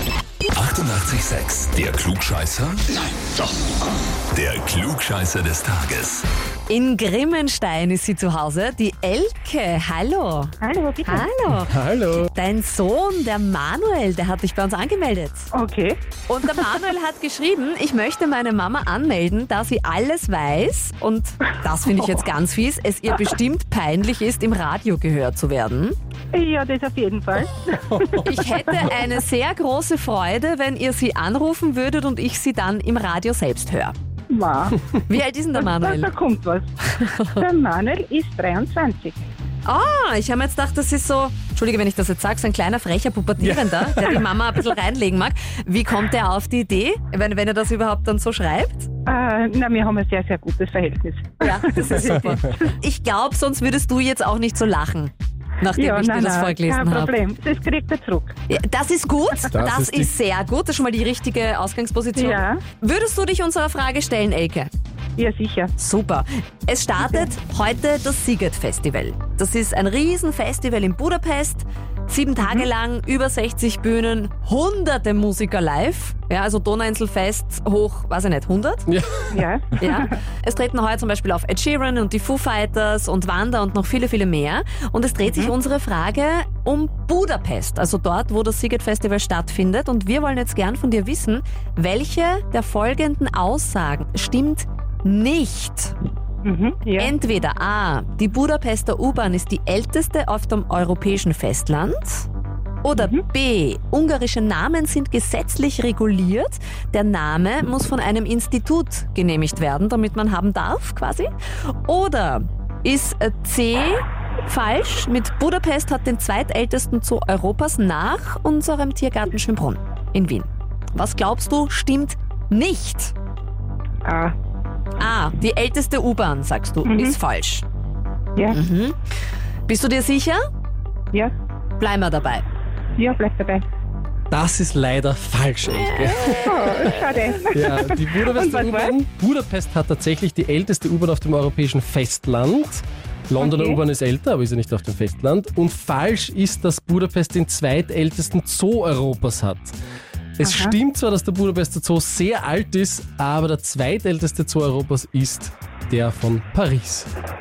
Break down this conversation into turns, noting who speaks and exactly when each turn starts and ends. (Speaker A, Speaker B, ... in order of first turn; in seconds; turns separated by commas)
Speaker A: 0.5-3.0, Speaker A: 4.3-6.2, Speaker B: 6.7-15.5, Speaker C: 10.6-11.3, Speaker D: 11.5-12.3, Speaker C: 15.5-16.0, Speaker B: 16.3-25.9, Speaker C: 26.3-28.9, Speaker B: 28.2-33.9, Speaker C: 34.3-34.8, Speaker B: 34.9-36.1, Speaker C: 35.5-39.2, Speaker B: 37.0-37.4, Speaker B: 39.6-48.9, Speaker D: 43.4-44.3, Speaker C: 49.1-52.7, Speaker B: 51.4-57.1, Speaker C: 55.8-58.4, Speaker B: 58.5-64.7, Speaker D: 59.5-60.1, Speaker C: 62.1-62.6, Speaker C: 65.2-65.7, Speaker B: 65.8-78.9, Speaker C: 67.0-67.3, Speaker D: 78.9-79.3, Speaker C: 79.3-80.1, Speaker B: 79.7-95.9, Speaker C: 85.2-85.5, Speaker C: 96.4-97.1, Speaker B: 97.0-102.3, Speaker B: 102.8-123.1, Speaker C: 103.0-103.2, Speaker C: 124.0-124.3, Speaker B: 125.0-127.6, Speaker C: 126.8-127.2, Speaker B: 128.5-129.0, Speaker B: 129.7-130.4, Speaker B: 131.8-132.4, Speaker C: 133.0-133.6, Speaker D: 134.3-149.8, Speaker B: 135.7-136.9, Speaker C: 136.4-138.9, Speaker C: 143.4-143.8, Speaker D: 150.4-157.1, Speaker C: 150.4-150.7